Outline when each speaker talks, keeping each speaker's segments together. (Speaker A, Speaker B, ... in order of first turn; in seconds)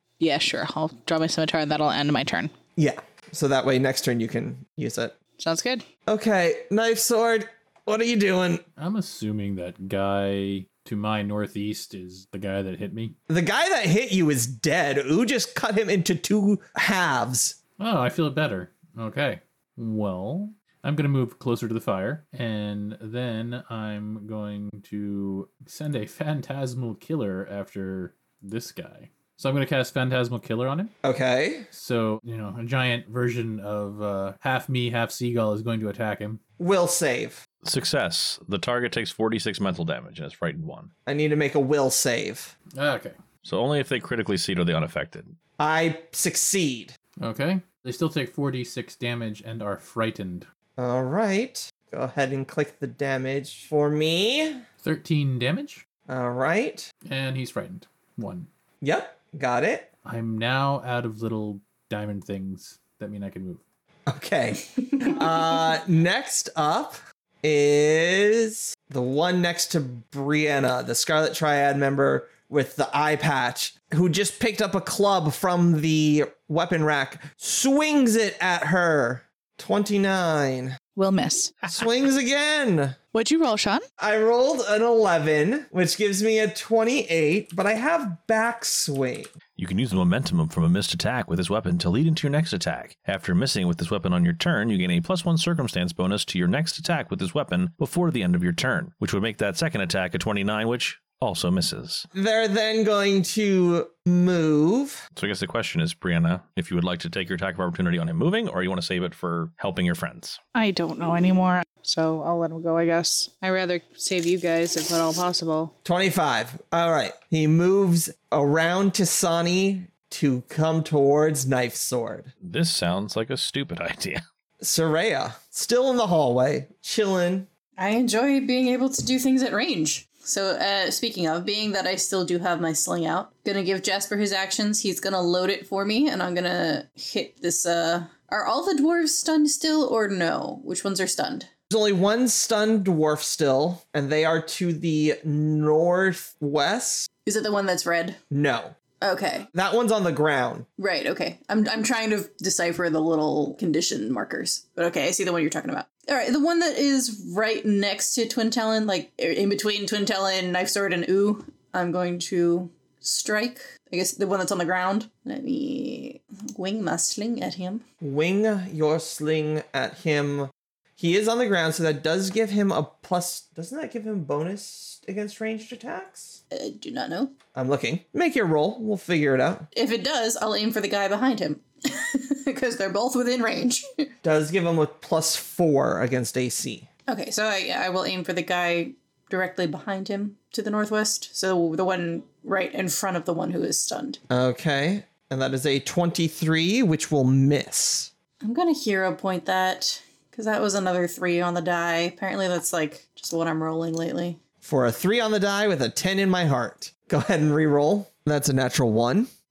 Speaker A: 0.2-2.5, 5.4-5.8, 81.0-81.6, 83.1-83.8, 110.5-115.7
Speaker B: 2.8-5.2, 6.1-8.6, 13.3-17.6, 31.0-31.7, 36.6-37.4, 41.0-42.5, 45.6-47.0, 50.8-54.6, 56.1-56.9, 58.8-59.9, 64.1-80.8, 81.7-83.0, 84.0-89.3, 102.1-105.0, 115.8-122.3, 124.6-127.5, 141.7-147.1, 148.3-148.8, 149.5-150.7, 168.0-176.4, 177.5-179.7, 184.2-186.9, 194.3-198.1, 204.6-209.3
Speaker C: 8.8-13.1, 17.8-30.9, 31.7-36.4, 42.7-43.2, 47.2-50.5, 54.8-55.8, 57.0-58.5, 60.0-63.6
Speaker D: 37.6-40.9, 43.4-45.3, 89.6-102.0, 105.2-110.4, 122.4-124.2
Speaker E: 127.8-141.5, 147.2-148.2, 149.0-149.5, 150.8-167.8, 176.5-177.3, 179.7-184.1, 187.1-194.2, 198.4-204.4